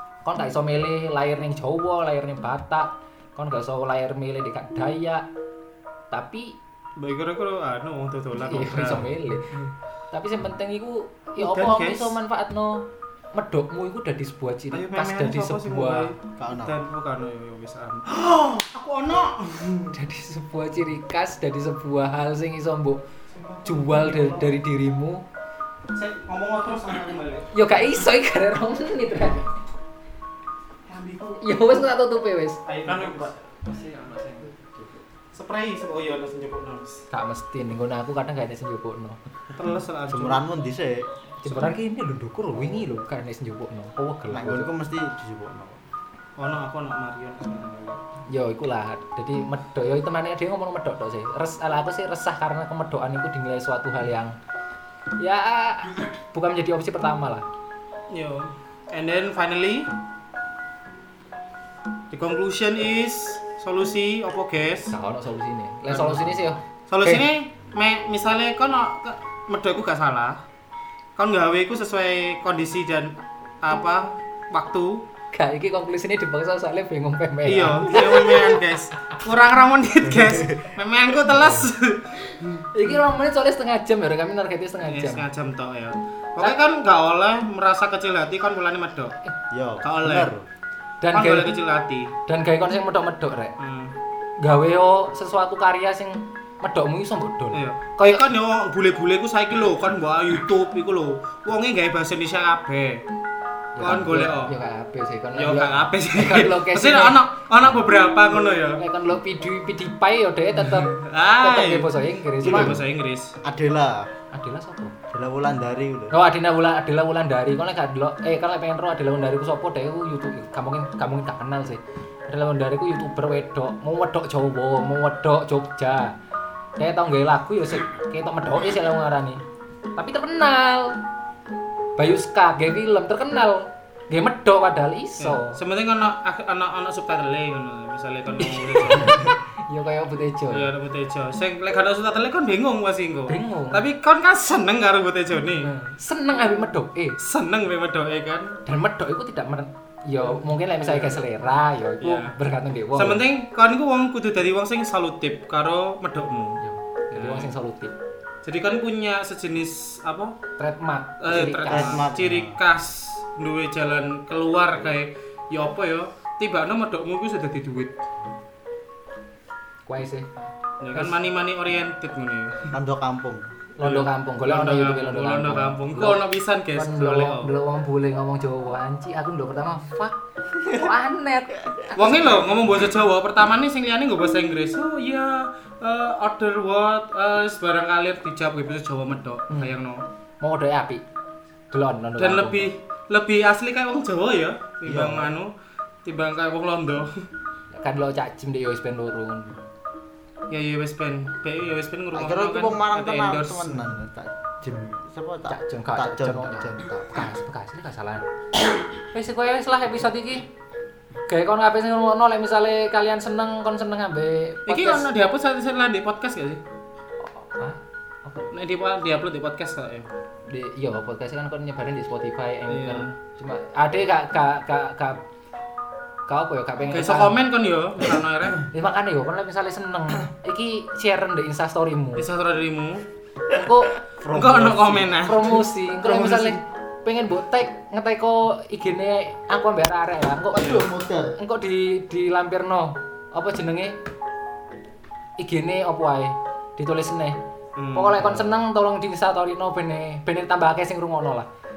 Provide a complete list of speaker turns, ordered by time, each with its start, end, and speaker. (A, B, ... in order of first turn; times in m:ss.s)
0:00.2-0:05.3 A
0:06.1-0:06.6 A
0:07.0-0:09.6 B
0:08.4-0:09.6 A
0:10.1-0:16.1 A
0:11.4-0:12.2 B
0:14.7-0:20.0 B
0:16.4-0:16.8 C
0:19.9-0:23.0 A
0:23.3-0:24.6 B
0:23.6-0:25.2 A
0:25.9-0:27.5 B
0:27.5-0:29.5 A
0:30.9-0:31.8 B
0:31.4-0:32.6 A
0:32.7-0:34.6 B
0:35.3-0:37.1 B
0:37.1-0:39.2 A
0:39.5-0:40.4 B
0:40.1-0:41.1 C
0:41.4-0:44.7 A
0:44.3-0:45.8 C
0:46.4-0:48.0 B
0:48.3-0:54.4 A
0:55.2-0:57.4 A
0:58.1-0:59.9 B
1:02.1-1:04.9 B
1:04.9-1:07.2 A
1:05.9-1:10.4 B
1:11.2-1:15.0 B
1:15.3-1:18.6 A
1:17.5-1:22.7 B
1:20.0-1:20.8 C
1:21.3-1:21.7 C
1:22.7-1:25.3 A
1:24.8-1:29.2 B
1:29.5-1:30.5 C
1:29.8-1:30.3 B
1:31.0-1:31.6 A
1:31.1-1:32.1 B
1:32.3-1:33.6 A
1:33.6-1:34.0 B
1:34.4-1:38.3 A
1:37.5-1:43.0 B
1:43.8-1:47.2 A
1:43.8-1:44.5 B
1:45.4-1:48.8 B
1:48.7-1:52.8 A
1:50.6-1:53.4 B
1:52.4-1:52.8 C
1:53.4-1:54.1 C
1:54.3-1:54.9 A
1:55.1-1:56.2 C
1:56.1-2:06.1 A
2:06.8-2:09.4 A
2:10.0-2:11.0 A
2:12.0-2:15.6 A
2:15.2-2:19.3 B
2:18.4-2:20.7 A
2:20.5-2:25.7 B
2:23.3-2:23.9 A
2:25.6-2:27.2 A
2:27.2-2:28.6 B
2:28.7-2:33.2 A
2:30.8-2:31.2 B
2:32.0-2:32.4 B
2:32.9-2:36.6 B
2:36.6-2:38.0 A
2:37.1-2:37.5 B
2:38.4-2:40.4 B
2:40.6-2:42.0 A
2:41.2-2:48.0 B
2:41.7-2:42.6 C
2:49.9-2:50.3 A
2:50.8-2:52.8 B
2:52.7-2:53.5 C
2:53.8-2:56.2 A
2:53.8-2:57.5 B
2:56.8-3:02.3 A
3:01.9-3:10.0 B
3:10.4-3:11.0 A
3:11.7-3:12.7 A
3:12.2-3:15.5 B
3:14.8-3:15.3 C
3:16.0-3:17.3 B
3:17.7-3:19.6 A
3:20.5-3:23.8 B
3:22.1-3:27.4 C
3:25.5-3:28.2 A
3:29.1-3:30.5 A
3:31.3-3:35.1 A
3:34.7-3:36.6 B
3:37.2-3:38.5 A
3:38.5-3:40.1 B
3:40.5-3:45.2 A
3:42.7-3:43.1 B
3:46.3-3:47.4 A
3:46.9-3:48.6 B
3:48.7-3:52.3 A
3:52.2-3:53.0 B
3:53.5-3:54.0 A
3:54.2-3:55.2 C
3:54.3-3:56.6 B
3:55.2-4:04.0 A
4:00.5-4:01.3 C
4:00.6-4:00.8 B
4:05.4-4:07.4 A
4:07.8-4:08.3 B
4:07.9-4:11.5 A
4:08.2-4:08.6 C